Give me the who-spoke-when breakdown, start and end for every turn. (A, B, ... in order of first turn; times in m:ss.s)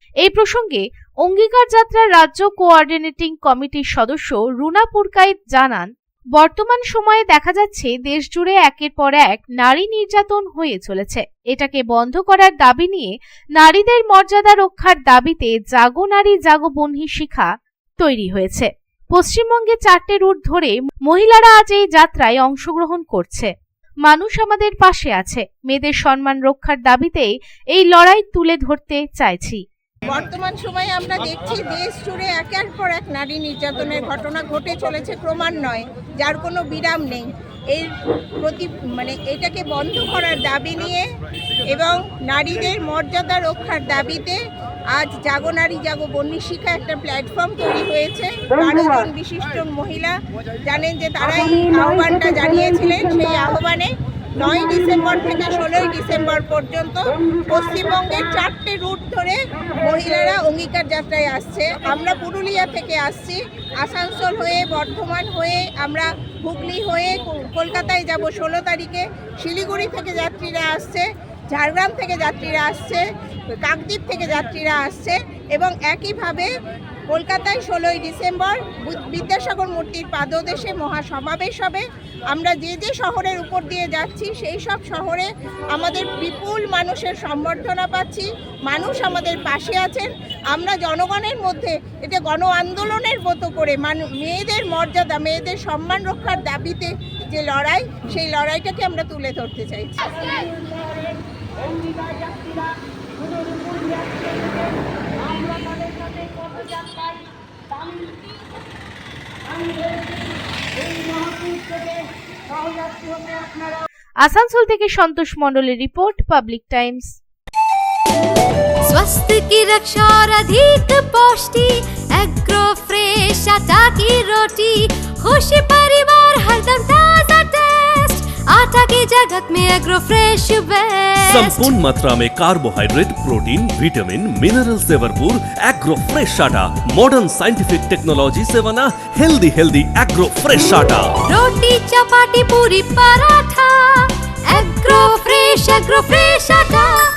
0:00.2-0:23.5 A
0:24.0-0:29.6 A
0:30.1-0:37.9 B
0:38.4-0:41.1 B
0:41.7-0:44.4 B
0:44.9-1:13.0 B
1:13.6-1:16.5 B
1:17.1-1:40.3 B
1:40.3-1:47.1 C
1:47.8-1:48.1 C
1:49.6-1:50.0 C
1:50.9-1:52.0 C
1:52.5-1:53.8 C
1:54.2-1:57.1 A
1:58.9-2:11.7 D
2:11.3-2:21.2 E
2:21.2-2:26.9 D